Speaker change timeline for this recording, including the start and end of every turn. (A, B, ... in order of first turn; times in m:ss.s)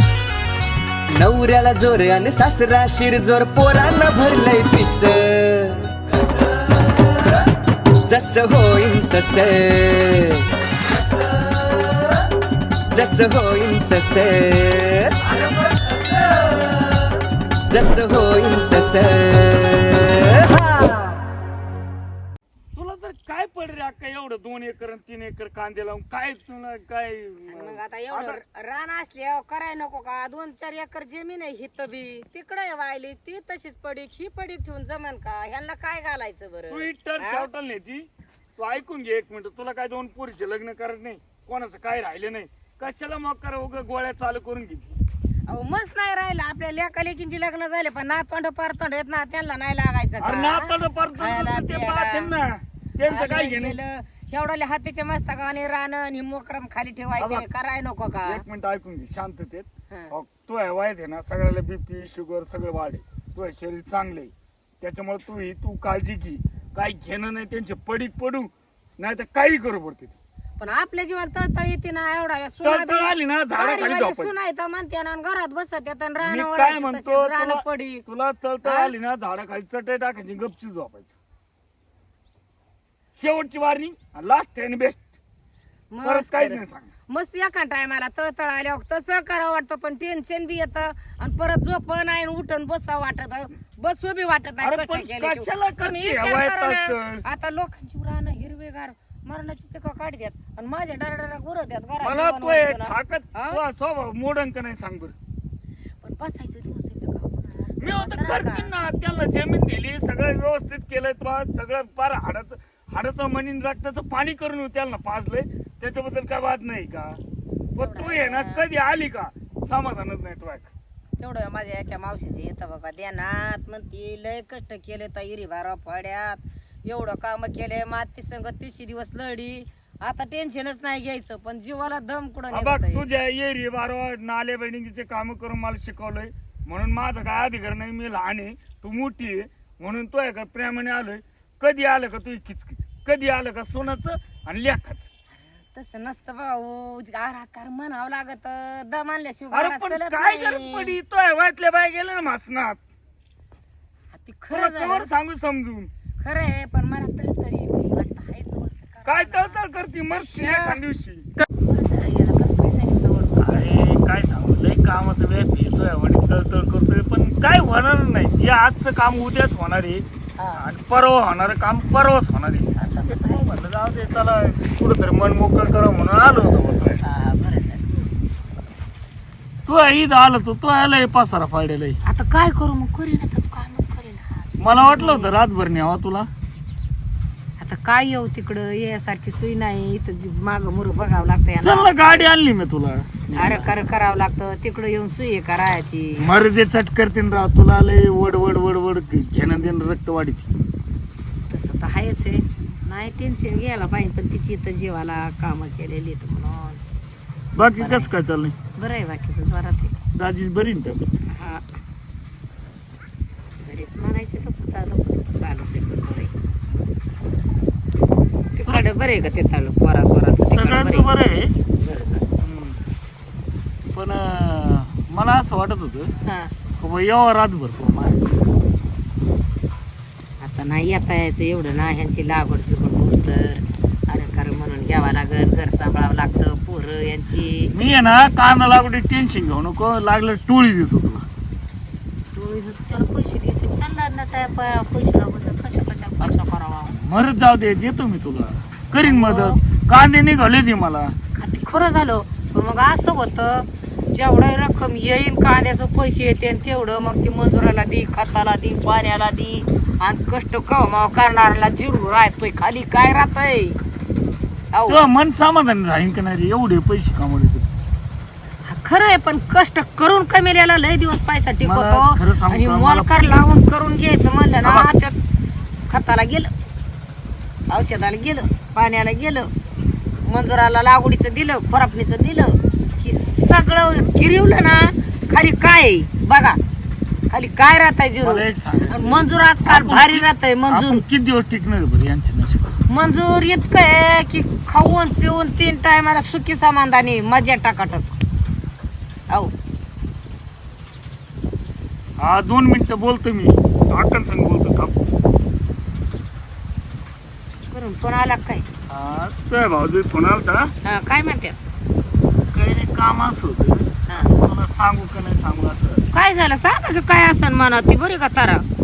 0:01.1-0:06.8 A
0:08.1-0:10.4 A
0:12.9-0:16.6 A
0:17.7-0:21.2 A
0:22.8-0:28.4 B
0:27.5-0:37.5 C
0:36.7-0:45.0 B
0:45.5-0:52.3 C
0:50.2-0:53.8 B
0:53.1-0:58.4 C
0:57.2-0:57.4 B
0:58.3-1:10.2 B
1:10.6-1:18.0 C
1:12.6-1:14.3 B
1:16.2-1:21.1 B
1:18.6-1:18.9 C
1:23.2-1:25.1 B
1:25.9-1:43.6 C
1:26.0-1:26.9 B
1:34.6-1:37.2 B
1:42.0-1:45.2 B
1:46.0-1:48.7 C
1:47.8-1:57.2 B
1:57.8-2:00.7 B
1:57.8-1:58.6 C
2:01.2-2:13.0 C
2:12.5-2:25.1 B
2:25.4-2:31.0 C
2:29.5-2:32.8 B
2:34.1-2:35.1 C
2:34.5-2:35.9 B
2:36.2-2:39.6 C
2:39.1-2:41.3 B
2:40.2-2:40.8 C
2:41.6-2:43.7 C
2:43.4-2:50.0 B
2:50.4-2:50.6 C
2:50.6-2:57.0 B
2:52.8-2:53.6 C
2:57.0-2:58.1 C
2:59.7-3:02.0 B
3:02.0-3:05.3 C
3:04.6-3:06.3 B
3:07.6-3:11.9 C
3:11.6-3:13.7 B
3:13.4-3:16.2 C
3:16.2-3:20.5 B
3:21.5-3:26.8 C
3:27.5-3:28.1 C
3:27.6-3:28.6 B
3:28.7-3:30.0 C
3:30.2-3:31.1 B
3:31.3-3:31.6 C
3:33.6-3:36.3 C
3:38.6-3:41.1 C
3:40.4-3:41.5 B
3:41.8-3:42.3 C
3:42.3-3:42.8 B
3:43.9-3:46.1 B
3:46.3-3:46.5 C
3:46.8-3:48.3 B
3:50.4-3:57.7 C
3:57.7-4:01.2 B
4:02.3-4:07.0 C
4:06.9-4:11.2 B
4:09.0-4:09.6 C
4:11.4-4:23.8 C
4:24.7-4:25.0 C
4:24.9-4:27.7 B
4:28.7-4:35.2 C
4:31.6-4:33.3 B
4:35.9-4:36.5 C
4:37.7-4:39.5 C
4:40.2-4:46.6 C
4:47.3-4:51.0 C
4:48.2-4:52.8 B
4:52.9-4:58.2 C
5:02.2-5:05.0 B
5:07.7-5:08.6 C
5:08.9-5:10.7 B
5:10.8-5:11.6 C
5:12.5-5:16.1 B
5:14.1-5:14.3 C
5:16.1-5:18.6 C